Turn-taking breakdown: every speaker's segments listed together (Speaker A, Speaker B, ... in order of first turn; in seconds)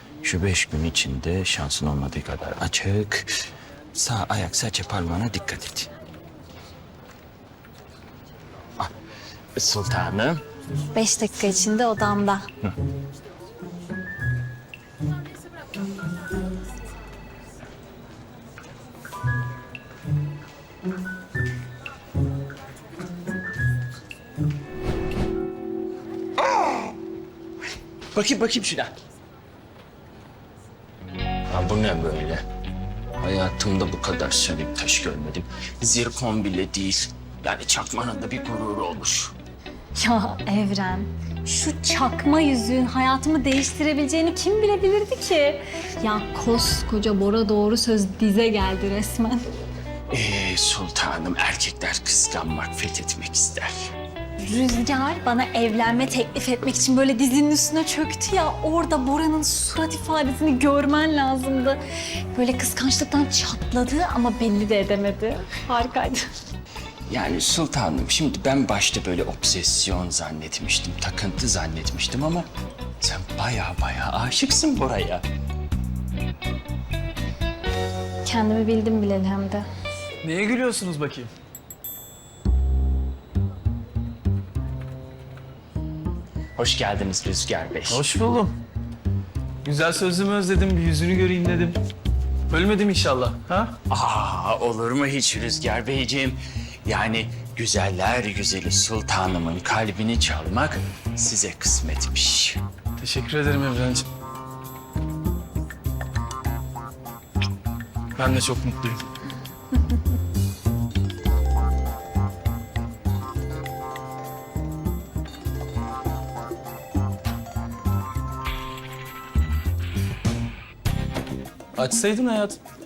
Speaker A: 0.2-3.3, 3.9-5.9, 9.6-10.4, 28.1-28.9, 31.5-32.4, 33.2-39.3, 50.1-53.9, 67.1-72.5, 73.0-75.2, 86.5-88.0, 93.9-102.6
Speaker B: 10.9-12.4, 39.9-49.5, 54.4-61.8, 62.3-66.3, 78.2-79.7
Speaker C: 80.2-81.3, 87.9-88.6, 89.6-91.8, 92.5-93.8, 103.0-104.1, 108.2-109.0, 121.7-122.6